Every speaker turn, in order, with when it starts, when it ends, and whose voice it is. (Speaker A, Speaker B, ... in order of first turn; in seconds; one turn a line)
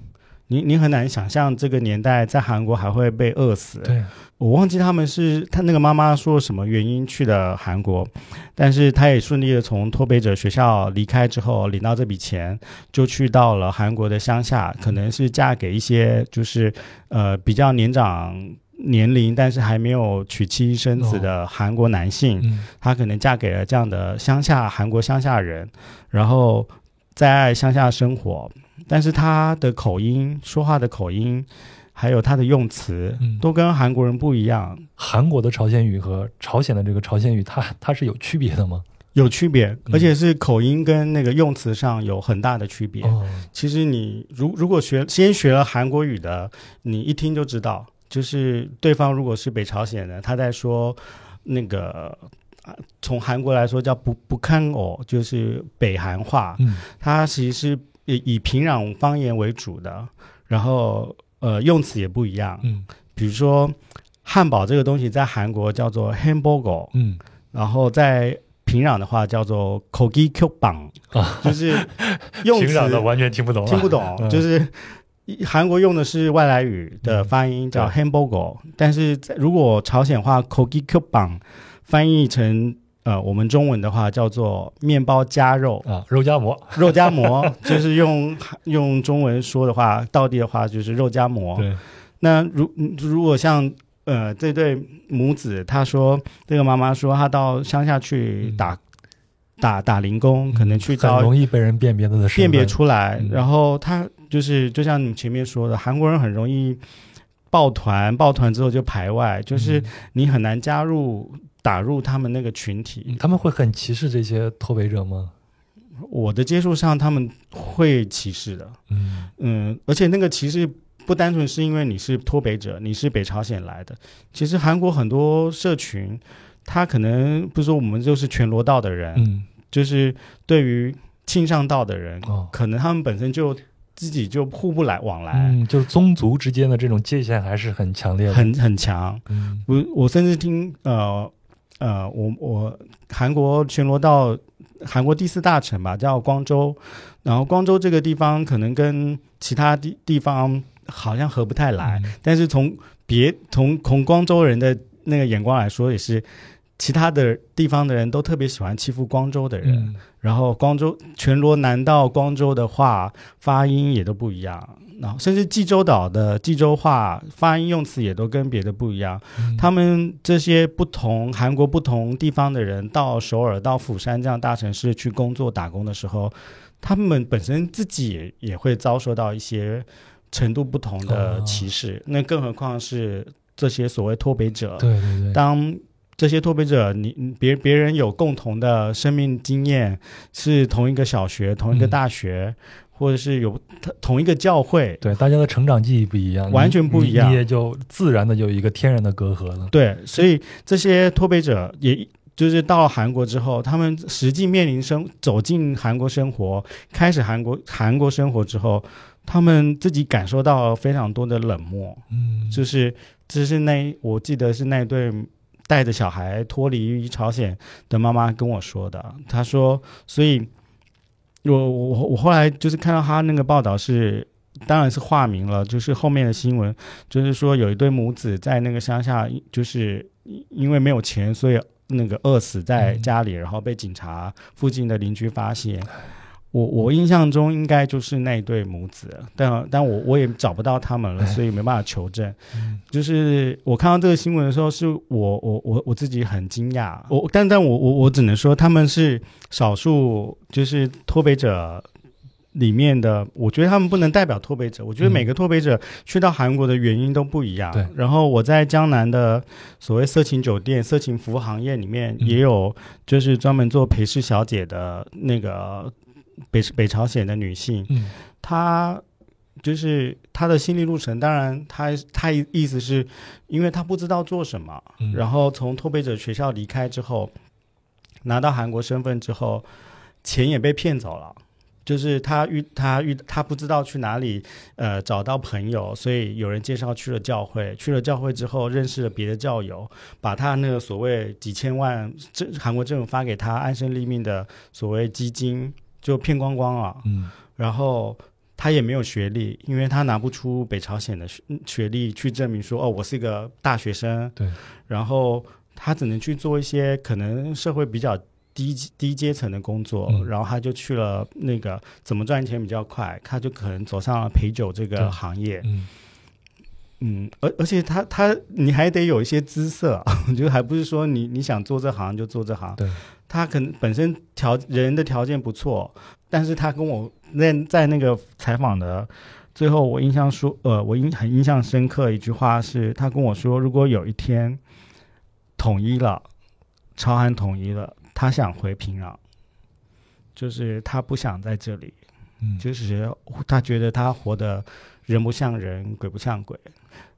Speaker A: 0.5-34.9
Speaker B: 3.9-4.1
Speaker B: 21.0-21.3
Speaker B: 22.4-22.7
Speaker B: 35.0-38.9
Speaker A: 39.1-52.2
Speaker B: 43.0-43.5
Speaker A: 53.0-66.9
Speaker B: 66.9-67.2
Speaker A: 67.5-73.1
Speaker B: 71.1-74.4
Speaker A: 73.7-85.9
Speaker B: 77.0-77.9
Speaker B: 85.9-87.7
Speaker A: 86.7-98.8
Speaker B: 91.6-91.8
Speaker A: 99.6-101.3
Speaker B: 100.5-103.4
Speaker A: 102.3-106.8
Speaker A: 107.5-113.2
Speaker B: 109.5-109.9
Speaker B: 113.1-115.3
Speaker A: 116.0-118.8
Speaker B: 118.9-119.3
Speaker A: 119.4-135.6
Speaker B: 129.2-129.5
Speaker B: 135.3-138.5
Speaker A: 138.3-156.2
Speaker B: 139.3-139.7
Speaker B: 151.8-152.1
Speaker A: 156.8-195.0
Speaker B: 159.7-160.0
Speaker B: 169.4-169.7
Speaker B: 181.1-181.6
Speaker B: 184.8-185.4
Speaker B: 195.0-199.7
Speaker A: 196.5-197.4
Speaker A: 199.7-220.5
Speaker B: 212.1-212.6
Speaker A: 221.4-235.9
Speaker B: 232.8-233.1
Speaker A: 236.5-251.9
Speaker B: 242.6-242.8
Speaker A: 252.5-265.9
Speaker A: 266.5-269.0
Speaker A: 269.6-277.3
Speaker A: 278.2-279.7
Speaker A: 280.2-304.4
Speaker B: 297.1-297.3
Speaker A: 304.9-315.7
Speaker B: 315.0-315.9
Speaker A: 317.0-334.6
Speaker A: 335.6-336.2
Speaker A: 337.0-339.2
Speaker A: 340.4-341.9
Speaker A: 342.6-346.7